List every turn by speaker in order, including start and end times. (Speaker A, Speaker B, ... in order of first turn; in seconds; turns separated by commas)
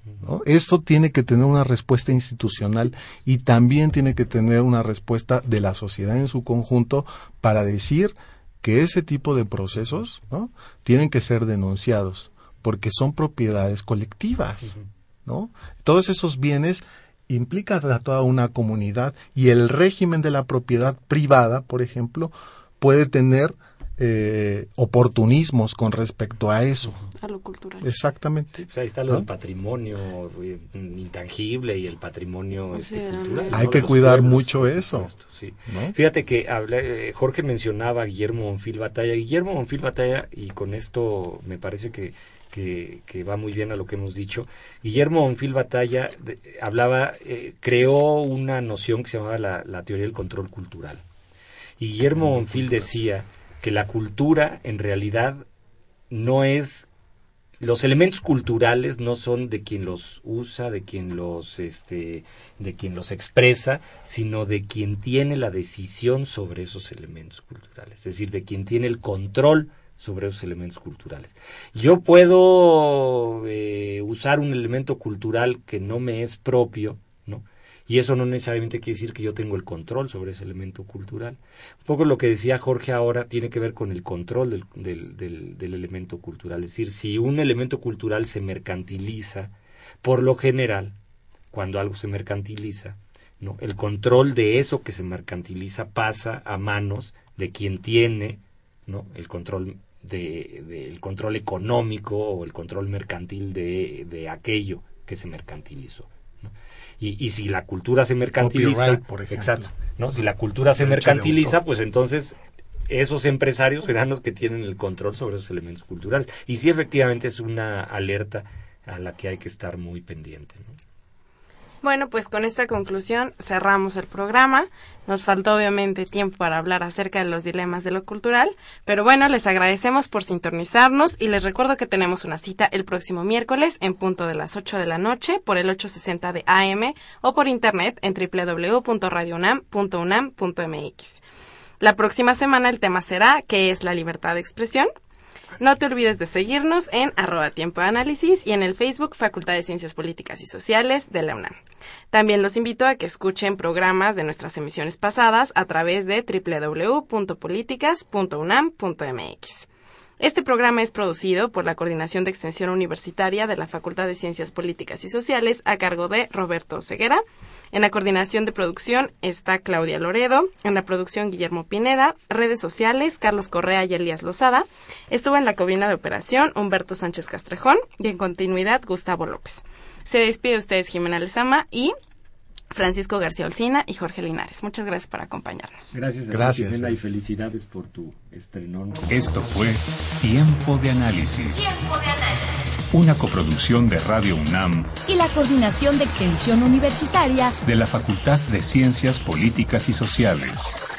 Speaker A: 0.2-27.0, Speaker B: 27.1-27.9, Speaker A: 27.8-29.3, Speaker C: 28.5-51.0, Speaker B: 32.7-33.9, Speaker A: 33.5-35.1, Speaker A: 35.7-36.0, Speaker C: 51.8-55.4, Speaker A: 52.1-52.9, Speaker C: 56.1-56.9, Speaker C: 57.6-90.9, Speaker C: 91.5-112.3, Speaker A: 108.4-109.7, Speaker A: 110.8-111.6, Speaker C: 112.9-120.8, Speaker B: 121.8-141.2, Speaker B: 141.8-144.9, Speaker B: 145.6-151.6, Speaker B: 152.1-159.7, Speaker B: 160.2-167.2, Speaker B: 167.7-181.9, Speaker B: 182.7-185.9, Speaker C: 185.9-189.1, Speaker A: 186.3-187.1, Speaker D: 189.1-191.8, Speaker D: 192.9-194.9, Speaker E: 195.1-197.6, Speaker D: 197.6-200.8